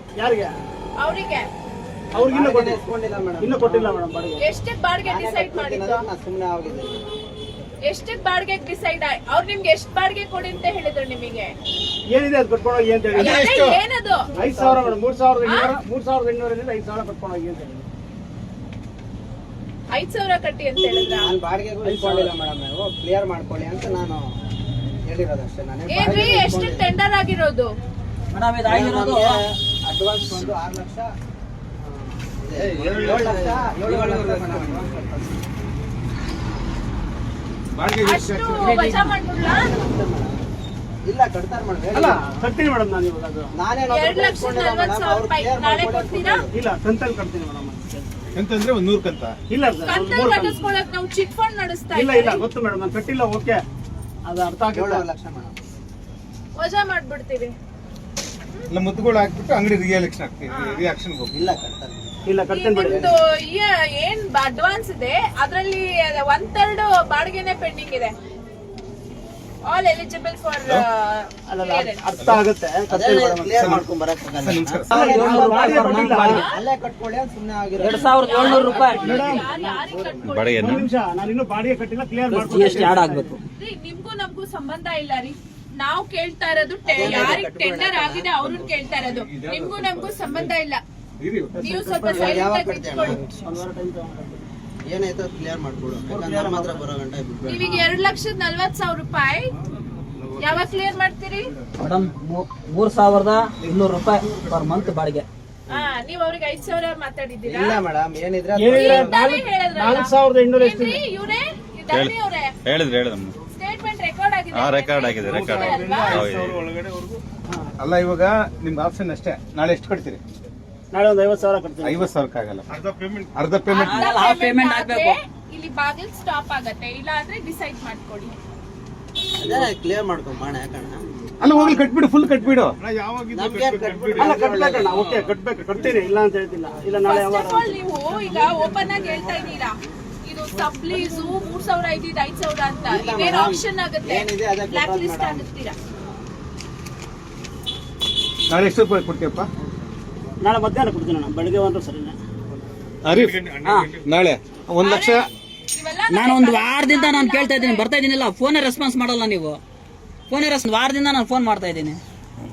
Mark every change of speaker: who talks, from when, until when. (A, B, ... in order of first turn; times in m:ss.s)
0:00.2-0:00.6 A
0:01.0-0:01.5 B
0:02.1-0:02.8 A
0:02.2-0:04.0 C
0:03.4-0:04.4 A
0:04.4-0:06.0 B
0:05.0-0:07.0 C
0:07.8-0:11.5 B
0:12.1-0:13.5 A
0:13.1-0:14.2 B
0:13.2-0:13.8 D
0:14.4-0:17.9 A
0:14.4-0:15.0 C
0:15.4-0:15.8 B
0:19.9-0:21.3 B
0:20.9-0:24.3 C
0:21.8-0:22.3 A
0:25.1-0:26.9 C
0:25.9-0:27.7 B
0:28.3-0:29.4 E
0:28.6-0:31.1 C
0:31.9-0:35.4 C
0:32.8-0:33.4 D
0:33.8-0:34.2 E
0:37.8-0:38.8 D
0:38.0-0:39.6 B
0:38.6-0:39.2 E
0:39.4-0:40.4 C
0:41.0-0:42.2 C
0:41.9-0:43.5 A
0:43.6-0:46.5 C
0:43.9-0:46.4 B
0:46.5-0:48.1 A
0:48.4-0:49.4 D
0:49.5-0:50.8 A
0:49.8-0:52.5 B
0:51.9-0:53.6 A
0:54.3-0:55.0 A
0:54.7-0:55.6 C
0:56.6-0:57.5 B
0:58.7-1:01.3 D
1:00.5-1:00.8 B
1:01.3-1:02.1 C
1:02.3-1:03.1 A
1:02.5-1:08.1 B
1:02.9-1:03.1 C
1:09.7-1:12.0 B
1:11.5-1:13.5 A
1:12.9-1:20.1 C
1:13.6-1:13.8 D
1:14.4-1:15.0 D
1:14.9-1:16.4 A
1:15.1-1:16.4 E
1:16.2-1:16.6 B
1:17.8-1:19.2 E
1:18.2-1:20.8 B
1:19.0-1:20.0 A
1:20.3-1:20.9 F
1:20.6-1:23.3 A
1:22.3-1:23.4 E
1:23.6-1:30.8 B
1:26.8-1:28.3 C
1:29.0-1:30.5 D
1:31.2-1:31.6 D
1:31.5-1:32.4 A
1:31.6-1:33.3 B
1:32.1-1:33.2 C
1:33.1-1:34.4 A
1:34.8-1:37.7 C
1:36.1-1:36.8 A
1:37.5-1:39.5 B
1:40.4-1:41.5 B
1:41.8-1:45.3 E
1:45.7-1:47.8 B
1:47.5-1:49.2 C
1:48.6-1:51.0 A
1:48.7-1:52.5 B
1:52.6-1:53.4 F
1:53.5-1:56.3 B
1:54.6-1:56.6 F
1:55.2-1:56.6 A
1:57.8-2:00.2 D
2:00.9-2:02.1 A
2:01.8-2:04.0 D
2:03.7-2:08.3 B
2:03.7-2:05.2 E
2:09.4-2:11.0 C
2:11.4-2:15.3 D
2:13.3-2:15.1 C
2:14.2-2:17.8 A
2:17.0-2:25.8 B
2:22.9-2:25.5 C
2:28.5-2:29.5 D
2:30.4-2:32.2 A
2:33.0-2:35.2 D
2:33.6-2:34.0 E
2:34.8-2:37.9 B
2:36.1-2:39.6 E
2:40.3-2:42.0 E